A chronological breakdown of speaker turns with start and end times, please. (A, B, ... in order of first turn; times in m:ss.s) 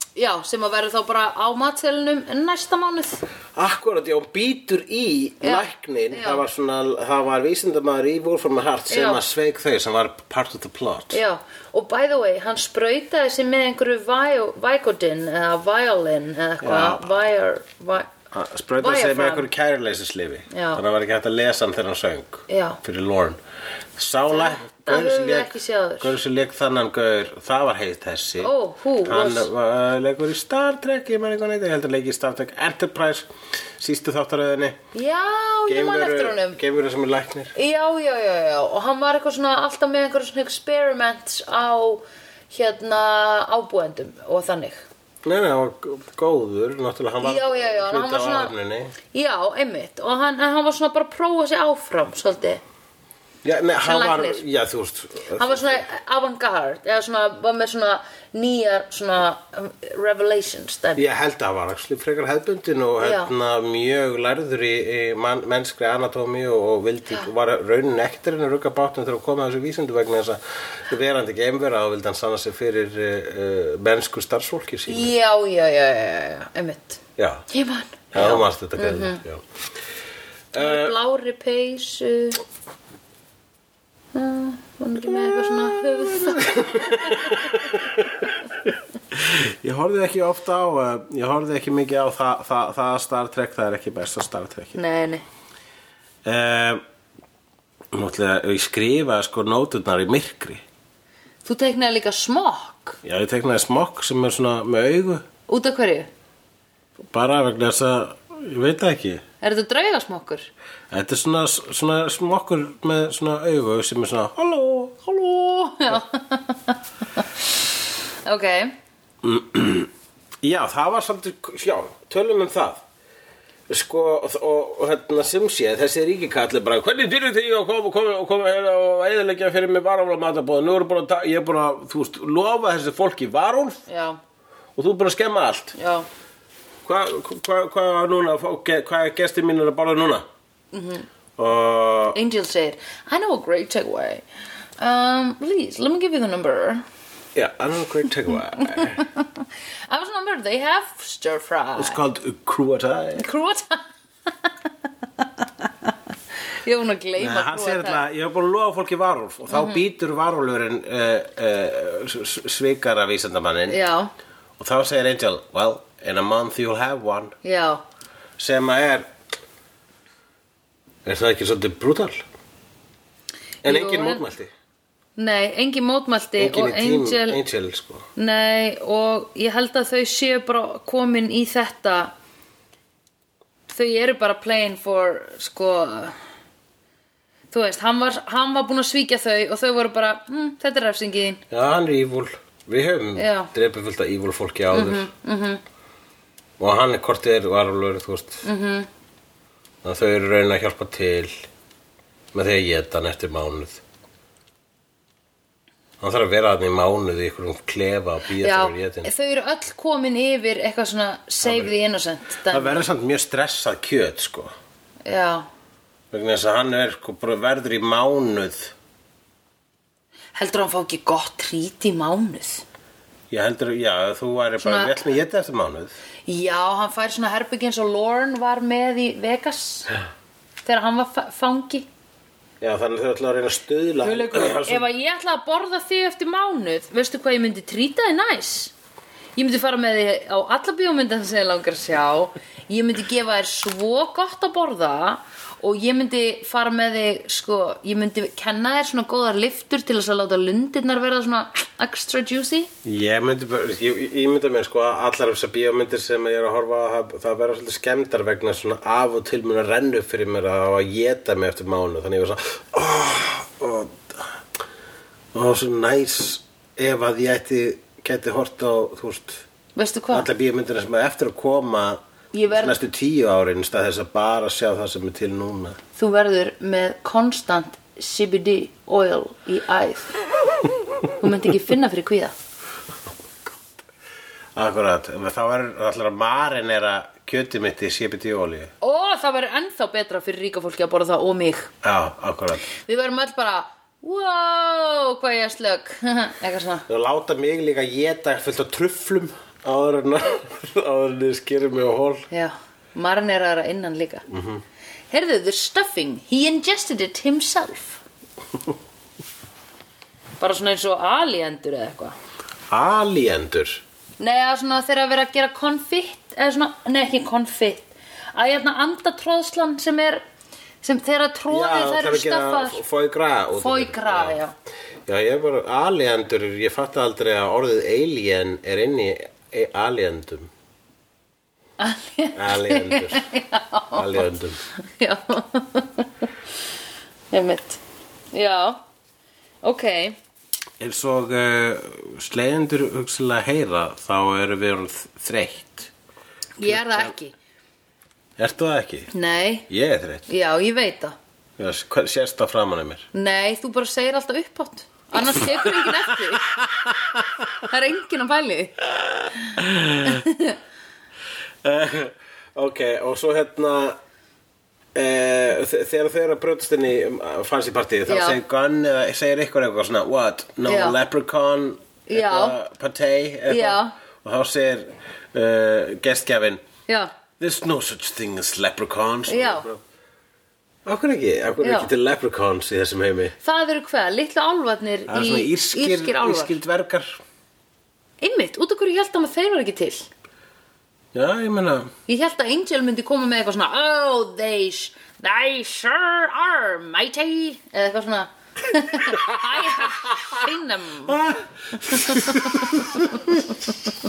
0:00.2-0:03.2 A
0:03.5-0:11.2 B
0:05.4-0:06.4 A
0:08.9-0:09.2 A
0:11.1-0:18.1 A
0:16.6-0:17.0 B
0:18.3-0:23.4 B
0:18.8-0:19.5 A
0:20.5-0:20.8 A
0:22.5-0:22.8 A
0:24.0-0:28.5 B
0:24.3-0:26.1 A
0:28.4-0:29.5 A
0:29.0-0:34.8 B
0:34.9-0:36.6 A
0:35.7-0:37.5 B
0:37.5-0:44.8 A
0:45.2-0:48.9 B
0:47.2-0:48.5 A
0:49.1-0:52.6 A
0:53.4-0:55.8 B
0:53.8-0:54.4 A
0:55.4-1:01.0 A
1:01.0-1:15.1 B
1:03.0-1:03.3 A
1:14.9-1:19.2 A
1:17.2-1:17.4 B
1:18.1-1:19.4 B
1:20.5-1:21.0 B
1:20.6-1:22.4 A
1:24.1-1:27.3 A
1:25.1-1:34.8 B
1:34.7-1:35.2 A
1:36.2-1:36.8 B
1:37.9-1:40.6 B
1:41.4-1:43.0 A
1:43.0-1:45.2 B
1:45.5-1:46.1 A
1:47.1-1:49.2 B
1:49.4-1:50.5 A
1:50.9-1:55.2 B
1:55.2-1:56.8 A
1:58.2-1:58.7 A
1:59.2-1:59.9 B
2:00.4-2:02.8 B
2:03.7-2:13.8 B
2:13.9-2:14.2 A
2:14.8-2:15.7 B
2:15.8-2:16.0 A
2:16.8-2:20.2 B
2:20.7-2:21.1 A
2:21.4-2:22.2 B
2:22.1-2:24.2 A
2:24.8-2:26.8 A
2:27.3-2:29.0 B
2:28.6-2:32.0 A
2:31.8-2:33.2 B
2:33.2-2:34.5 A
2:35.2-2:35.9 A
2:36.6-2:38.0 A
2:37.2-2:43.8 B
2:39.5-2:39.8 A
2:43.7-2:44.1 A
2:44.6-2:47.4 B
2:47.4-2:47.8 A
2:48.4-2:49.1 B
2:51.0-2:52.2 B
2:53.6-2:54.5 B
2:53.6-2:54.2 A
2:55.2-2:57.4 A
2:56.4-2:58.1 B
2:58.2-3:02.1 A
3:03.7-3:06.2 A
3:07.5-3:11.4 A
3:11.5-3:15.1 B
3:13.2-3:13.5 A
3:14.7-3:15.6 A
3:16.6-3:18.4 B
3:18.4-3:18.9 A
3:19.8-3:21.3 B
3:22.3-3:23.8 B
3:26.0-3:29.1 B
3:28.4-3:32.8 A
3:31.4-3:31.7 B
3:32.5-3:34.5 B
3:35.0-3:35.4 A
3:36.1-3:38.7 B
3:40.3-3:42.6 A
3:43.3-3:45.9 B
3:44.6-3:45.0 A
3:46.2-3:49.9 A
3:50.6-3:51.8 A
3:52.6-3:54.9 B
3:54.0-3:58.7 A
3:59.4-4:12.7 A
4:12.8-4:24.4 B
4:25.3-4:29.4 B
4:29.7-4:30.3 A
4:30.1-4:35.8 B
4:32.3-4:32.7 A
4:35.9-4:40.1 A
4:41.2-4:42.3 A
4:44.6-4:48.7 B
4:48.8-4:51.7 A
4:51.8-4:52.6 B
4:52.7-4:56.8 A
4:56.9-5:02.3 B
5:02.3-5:04.2 A
5:04.3-5:04.6 B
5:05.1-5:08.0 A
5:10.4-5:12.1 A
5:12.7-5:13.8 B
5:14.2-5:20.2 A
5:20.8-5:22.8 A
5:21.5-5:24.4 B
5:23.6-5:24.5 A
5:25.0-5:30.5 B
5:31.8-5:34.3 A
5:32.3-5:33.3 B
5:33.9-5:34.6 B
5:34.8-5:36.1 A
5:37.3-5:37.8 A
5:38.3-5:38.8 A
5:39.6-5:40.2 A
5:40.8-5:45.9 B
5:46.6-5:47.3 A
5:46.6-5:47.1 B
5:48.4-5:49.1 B
5:49.1-5:49.7 A
5:49.7-5:50.3 B
5:50.3-5:51.2 A
5:51.6-5:53.1 B
5:53.1-5:56.5 A
5:55.2-5:57.4 B
5:57.7-5:58.8 A
5:59.0-6:00.2 B
6:00.0-6:00.6 A
6:01.6-6:04.0 B
6:04.9-6:16.6 B
6:08.1-6:08.4 A
6:10.6-6:11.0 A
6:12.1-6:12.6 A
6:13.5-6:13.9 A
6:17.4-6:19.8 B
6:19.3-6:19.7 A
6:20.8-6:23.4 B
6:21.6-6:21.9 A
6:23.4-6:26.6 A
6:25.1-6:27.2 B
6:28.2-6:30.1 A
6:31.1-6:31.9 B
6:32.1-6:41.2 A
6:39.0-6:40.4 B
6:41.1-6:43.5 B
6:41.9-6:42.7 A